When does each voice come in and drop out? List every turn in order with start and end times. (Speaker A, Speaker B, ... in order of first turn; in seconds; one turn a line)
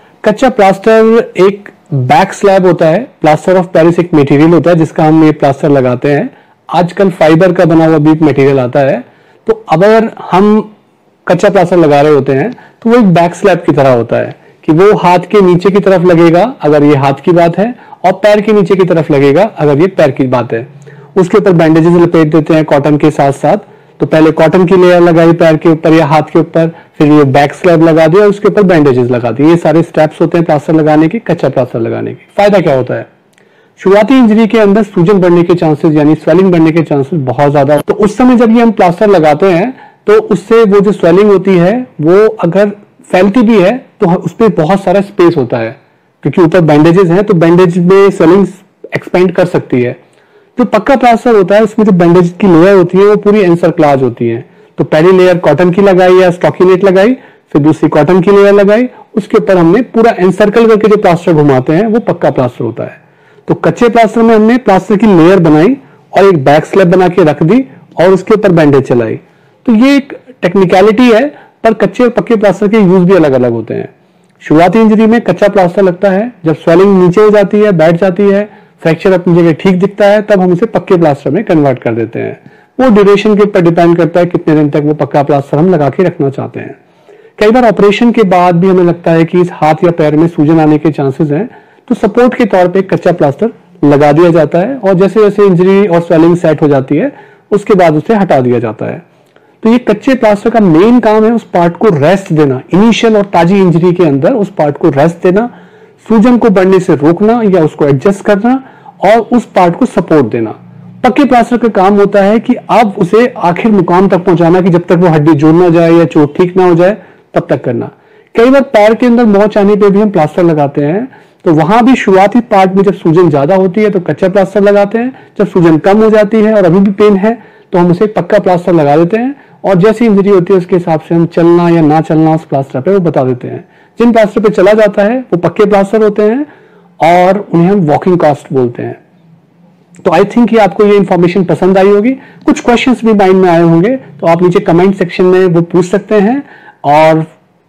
Speaker A: 0.2-10.7
Speaker A: 11.2-33.1
Speaker A: 33.8-50.0
Speaker A: 50.5-86.8
Speaker A: 87.4-99.0
Speaker A: 99.6-105.5
Speaker A: 106.0-136.5
Speaker A: 137.0-139.0
Speaker A: 140.0-147.3